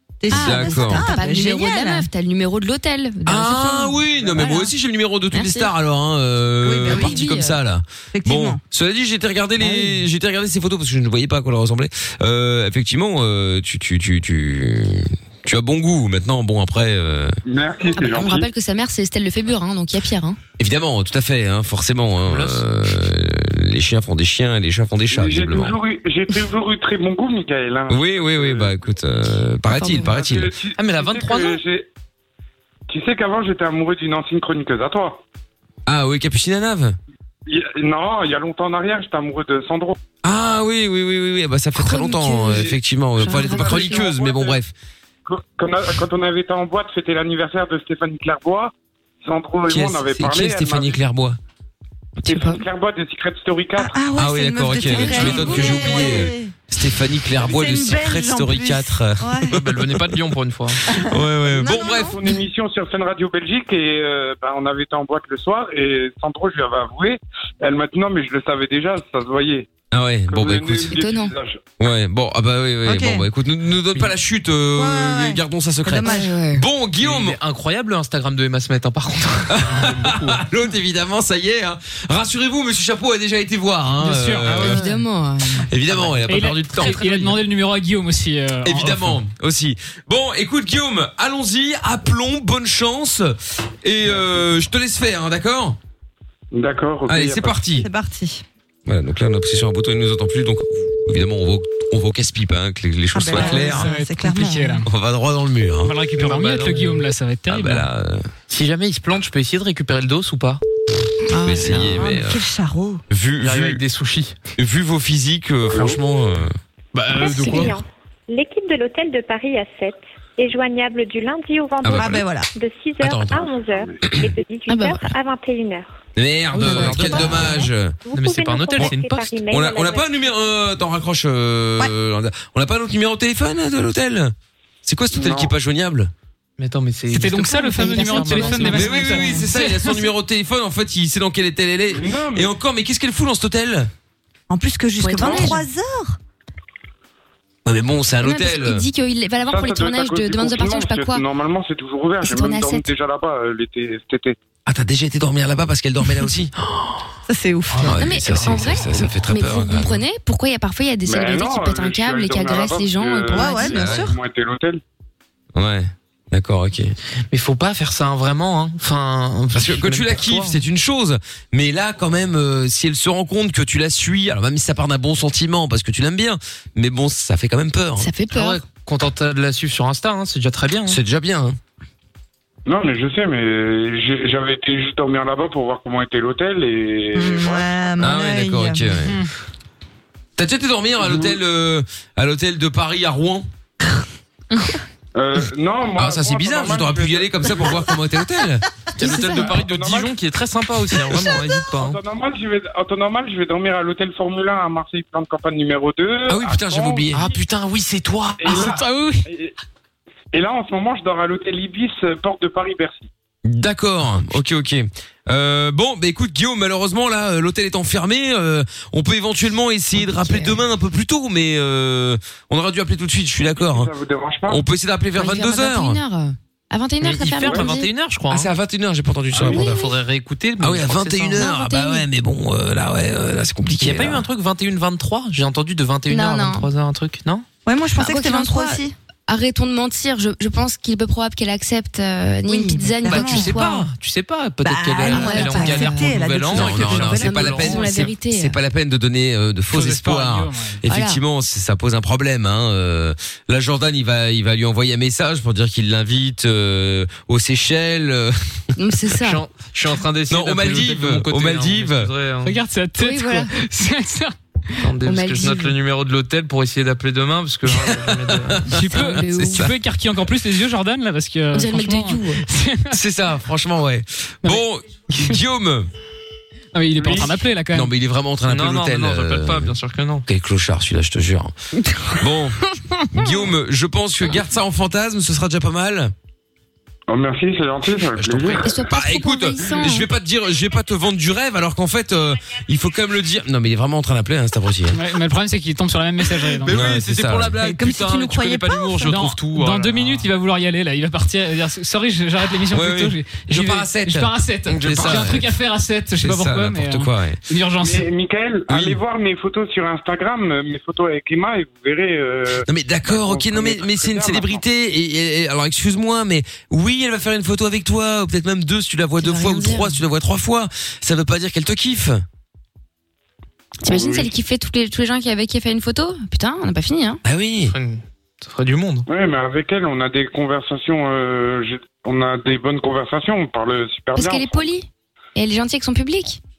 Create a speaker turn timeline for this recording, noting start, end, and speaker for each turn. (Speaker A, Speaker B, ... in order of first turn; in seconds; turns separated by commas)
Speaker A: 0.2-2.1, Speaker B: 0.3-1.1, Speaker C: 0.3-4.7, Speaker B: 3.2-17.4, Speaker C: 5.3-5.7, Speaker A: 6.6-7.3, Speaker C: 6.8-7.6, Speaker A: 8.1-8.6, Speaker A: 9.6-10.0, Speaker D: 17.4-18.5, Speaker C: 18.0-20.4, Speaker B: 20.6-25.7, Speaker E: 22.2-22.6, Speaker D: 25.1-28.8, Speaker B: 27.9-30.5, Speaker C: 29.7-30.1, Speaker D: 29.9-31.9, Speaker E: 30.8-31.6, Speaker D: 32.9-35.2, Speaker B: 35.9-37.0, Speaker D: 37.5-40.0, Speaker B: 40.2-44.7, Speaker C: 41.8-42.7, Speaker D: 43.2-44.6, Speaker C: 43.2-44.1, Speaker D: 45.2-51.0, Speaker B: 49.7-51.4, Speaker C: 52.2-52.6, Speaker D: 52.2-54.0, Speaker A: 53.8-56.5, Speaker B: 54.1-60.0, Speaker C: 54.9-56.1, Speaker A: 57.3-59.6, Speaker E: 59.5-60.8, Speaker B: 60.9-62.1, Speaker A: 60.9-62.2, Speaker D: 61.7-69.7, Speaker B: 69.9-70.9, Speaker D: 70.3-71.6, Speaker C: 70.9-71.3, Speaker B: 71.8-77.4, Speaker A: 72.8-73.2, Speaker A: 74.7-76.3, Speaker C: 76.0-76.6, Speaker E: 77.0-80.4, Speaker B: 79.5-84.8, Speaker F: 84.0-85.0, Speaker C: 84.6-85.7, Speaker B: 85.7-87.3, Speaker F: 86.3-89.2, Speaker E: 86.8-87.3, Speaker B: 88.6-95.8, Speaker D: 96.5-97.6, Speaker B: 97.1-97.9, Speaker A: 97.7-98.4, Speaker B: 98.8-104.0, Speaker A: 103.1-104.8, Speaker F: 103.3-104.9, Speaker B: 104.8-105.9, Speaker F: 105.8-107.9, Speaker E: 106.2-107.0, Speaker B: 107.5-108.3, Speaker E: 108.5-110.6, Speaker C: 111.3-111.8, Speaker B: 111.4-112.4, Speaker A: 111.6-113.0, Speaker B: 113.1-113.8, Speaker E: 113.4-114.3, Speaker B: 114.6-116.5, Speaker E: 116.9-117.8, Speaker G: 117.1-125.9, Speaker B: 121.8-122.3, Speaker A: 121.9-122.5, Speaker B: 123.0-124.3, Speaker C: 124.7-125.1, Speaker B: 126.2-128.0, Speaker E: 126.5-129.3, Speaker A: 126.6-127.2, Speaker G: 128.1-130.3, Speaker B: 129.5-136.1, Speaker D: 135.1-135.5, Speaker E: 136.6-139.4, Speaker F: 137.1-140.0, Speaker A: 137.7-138.7, Speaker B: 138.6-143.9, Speaker D: 141.9-142.5, Speaker A: 144.5-146.2, Speaker C: 145.0-145.6, Speaker B: 147.6-148.9, Speaker C: 148.2-151.2, Speaker D: 149.4-154.4, Speaker C: 152.2-152.9, Speaker B: 154.7-157.0, Speaker A: 157.3-158.2, Speaker B: 157.7-160.0, Speaker C: 157.9-163.7, Speaker D: 161.0-164.8, Speaker A: 163.3-164.2, Speaker B: 163.7-164.1, Speaker B: 165.5-166.9, Speaker E: 167.3-170.6, Speaker B: 169.5-178.1, Speaker C: 178.0-178.6, Speaker E: 178.3-181.0, Speaker B: 180.8-181.6, Speaker D: 182.7-187.7, Speaker A: 187.1-188.8, Speaker B: 188.0-189.2, Speaker F: 189.0-189.3, Speaker B: 190.4-193.5, Speaker D: 195.1-197.8, Speaker B: 195.9-198.7, Speaker E: 198.9-202.0, Speaker C: 199.0-199.6, Speaker D: 199.1-200.1, Speaker D: 201.7-207.2, Speaker B: 206.3-207.2, Speaker E: 207.1-208.8, Speaker D: 208.4-209.5, Speaker F: 208.7-209.2, Speaker D: 210.3-213.1, Speaker B: 213.4-223.9, Speaker C: 220.0-220.6, Speaker D: 223.5-224.6, Speaker B: 224.5-226.0, Speaker C: 225.2-227.9, Speaker E: 227.0-228.5, Speaker D: 227.4-227.8, Speaker B: 228.3-229.9, Speaker E: 229.3-231.4, Speaker D: 229.4-229.7, Speaker B: 230.6-234.2, Speaker C: 231.3-232.0, Speaker E: 233.8-237.4, Speaker C: 236.1-236.7, Speaker A: 237.7-238.9, Speaker C: 237.9-243.9, Speaker A: 242.5-243.7, Speaker E: 243.1-248.1, Speaker A: 244.6-247.6, Speaker C: 245.0-246.2, Speaker B: 246.5-259.1, Speaker C: 247.0-248.6, Speaker F: 249.7-250.8, Speaker C: 250.9-251.2, Speaker C: 258.8-259.4, Speaker E: 259.2-262.6, Speaker B: 260.3-262.1, Speaker F: 262.4-264.3, Speaker C: 263.0-263.5, Speaker E: 264.8-268.6, Speaker C: 265.0-265.7, Speaker B: 267.6-269.7, Speaker F: 268.7-273.0, Speaker C: 268.9-269.7, Speaker C: 271.5-272.4, Speaker B: 272.9-275.9, Speaker F: 276.7-277.9, Speaker D: 277.0-277.3, Speaker B: 277.7-279.8, Speaker E: 278.4-280.2, Speaker B: 280.3-281.5, Speaker B: 282.1-282.6, Speaker B: 283.1-286.1, Speaker D: 287.1-288.8, Speaker B: 288.1-295.0, Speaker C: 288.6-290.1, Speaker F: 294.9-296.8, Speaker E: 296.6-300.3, Speaker B: 296.7-297.6, Speaker A: 297.6-299.1, Speaker F: 299.0-308.1, Speaker B: 302.7-305.5, Speaker B: 306.2-307.4, Speaker D: 307.8-314.6, Speaker B: 308.7-309.0, Speaker B: 312.6-322.2, Speaker C: 319.2-320.0, Speaker C: 323.8-327.2, Speaker D: 323.9-324.2, Speaker B: 327.2-327.7, Speaker E: 327.7-329.1, Speaker D: 329.1-334.7, Speaker C: 334.1-336.4